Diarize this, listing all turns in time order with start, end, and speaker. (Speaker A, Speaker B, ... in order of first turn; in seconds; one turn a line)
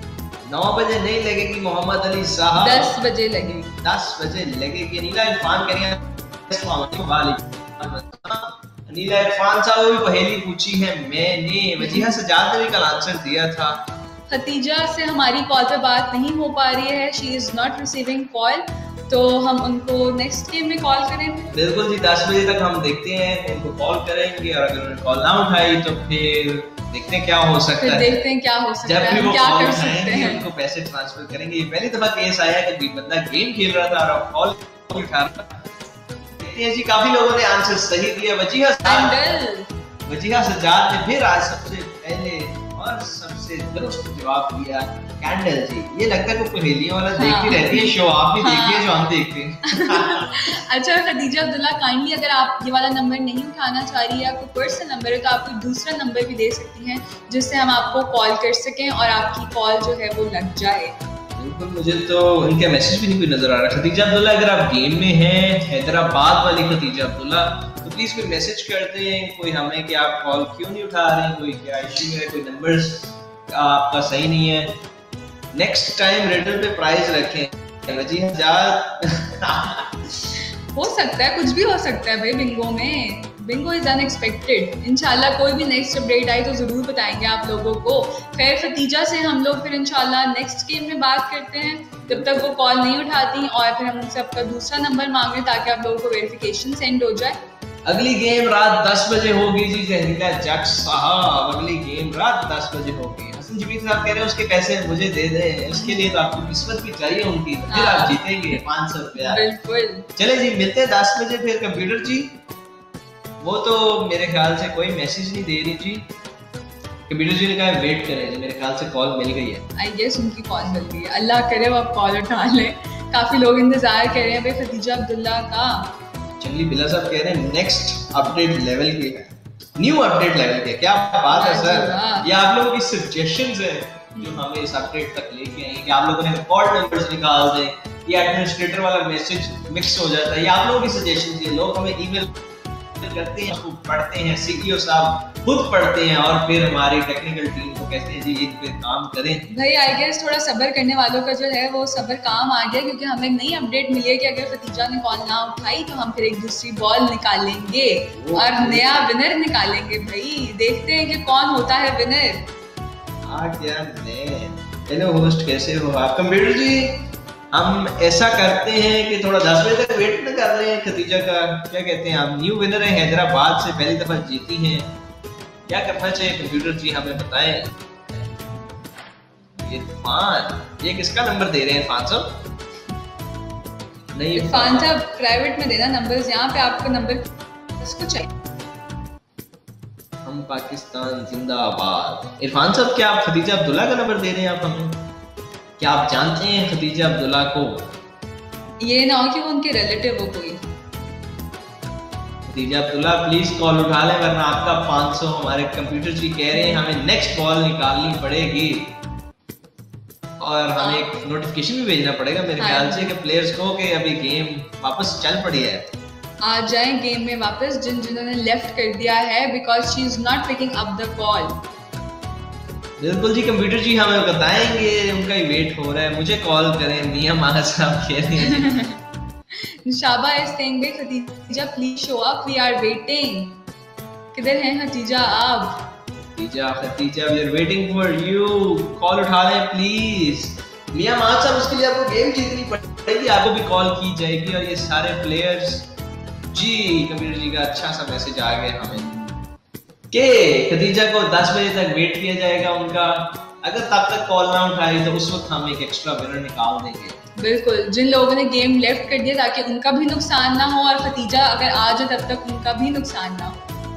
Speaker A: 0.4-3.0
Speaker B: 2.5-3.7
Speaker A: 3.8-13.8
Speaker B: 11.8-12.1
Speaker B: 14.3-21.5
Speaker A: 21.5-28.2
Speaker B: 27.8-30.4
Speaker A: 28.8-35.7
Speaker A: 36.3-39.2
Speaker B: 38.8-39.7
Speaker A: 40.0-50.5
Speaker B: 47.2-48.9
Speaker B: 49.7-61.0
Speaker A: 61.4-74.8
Speaker A: 75.5-80.1
Speaker B: 80.7-97.4
Speaker A: 92.0-92.5
Speaker A: 97.8-109.5
Speaker B: 107.7-108.6
Speaker B: 109.2-110.1
Speaker A: 110.2-112.4
Speaker A: 113.4-116.1
Speaker A: 117.1-119.7
Speaker B: 119.8-125.9
Speaker A: 126.4-142.4
Speaker B: 131.3-132.3
Speaker A: 143.0-149.5
Speaker B: 149.5-162.5
Speaker A: 158.1-159.1
Speaker A: 163.2-174.9
Speaker A: 175.7-177.7
Speaker A: 179.6-182.4
Speaker A: 184.1-184.9
Speaker B: 184.3-188.3
Speaker A: 190.2-195.1
Speaker A: 195.8-197.9
Speaker B: 198.8-200.7
Speaker A: 202.4-209.0
Speaker B: 206.5-206.8
Speaker A: 210.4-215.9
Speaker B: 210.8-211.1
Speaker B: 212.6-213.1
Speaker B: 216.4-221.6
Speaker A: 223.0-228.7
Speaker B: 228.4-229.0
Speaker B: 229.6-233.6
Speaker B: 234.3-235.9
Speaker A: 236.2-245.9
Speaker A: 246.5-249.1
Speaker B: 249.0-249.3
Speaker A: 250.1-257.2
Speaker B: 257.4-263.7